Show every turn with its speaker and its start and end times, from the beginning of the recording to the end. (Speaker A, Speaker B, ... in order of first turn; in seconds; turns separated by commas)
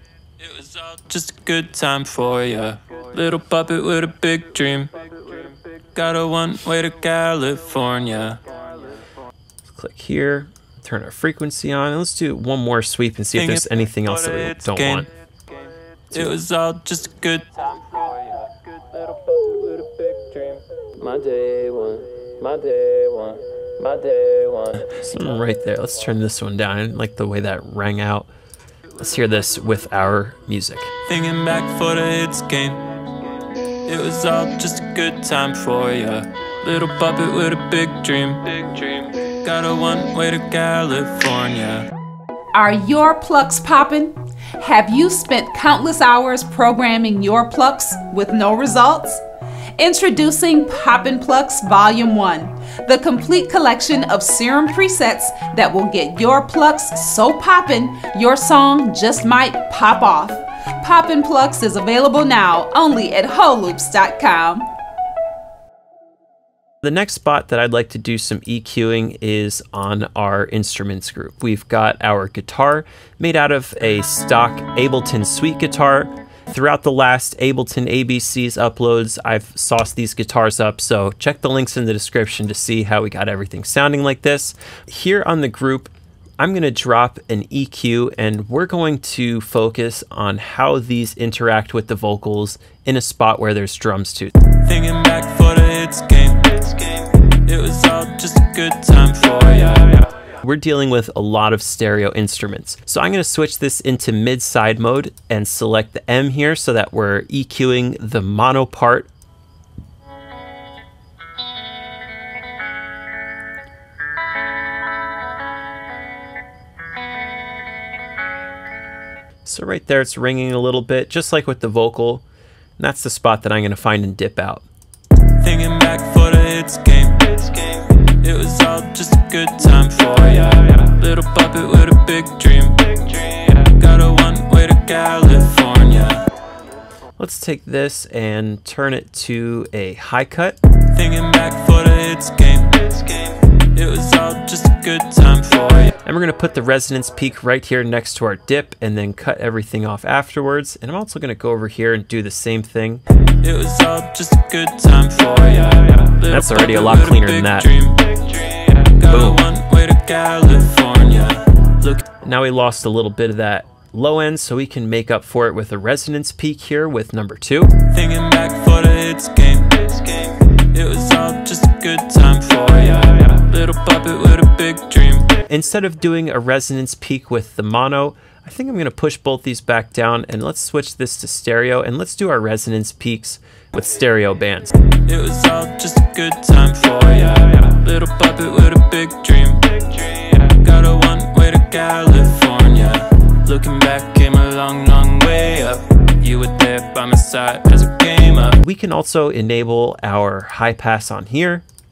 Speaker A: 0.4-8.6, Speaker B: 9.7-15.1, Speaker A: 13.3-15.1, Speaker A: 16.1-24.9, Speaker B: 24.9-28.3, Speaker B: 29.0-30.9, Speaker A: 31.1-32.8, Speaker A: 33.8-41.9, Speaker C: 42.5-49.2, Speaker C: 49.8-64.7, Speaker B: 66.8-94.3, Speaker A: 94.6-100.1, Speaker B: 100.4-109.1, Speaker B: 119.5-122.2, Speaker B: 122.8-124.6, Speaker A: 125.4-136.2, Speaker B: 137.2-140.6, Speaker A: 140.9-145.9, Speaker B: 146.0-153.0, Speaker A: 153.4-162.0, Speaker B: 156.3-157.7, Speaker B: 159.1-159.4, Speaker B: 162.2-167.8, Speaker A: 167.9-175.3, Speaker B: 175.4-184.7, Speaker A: 185.1-198.6, Speaker B: 198.6-201.6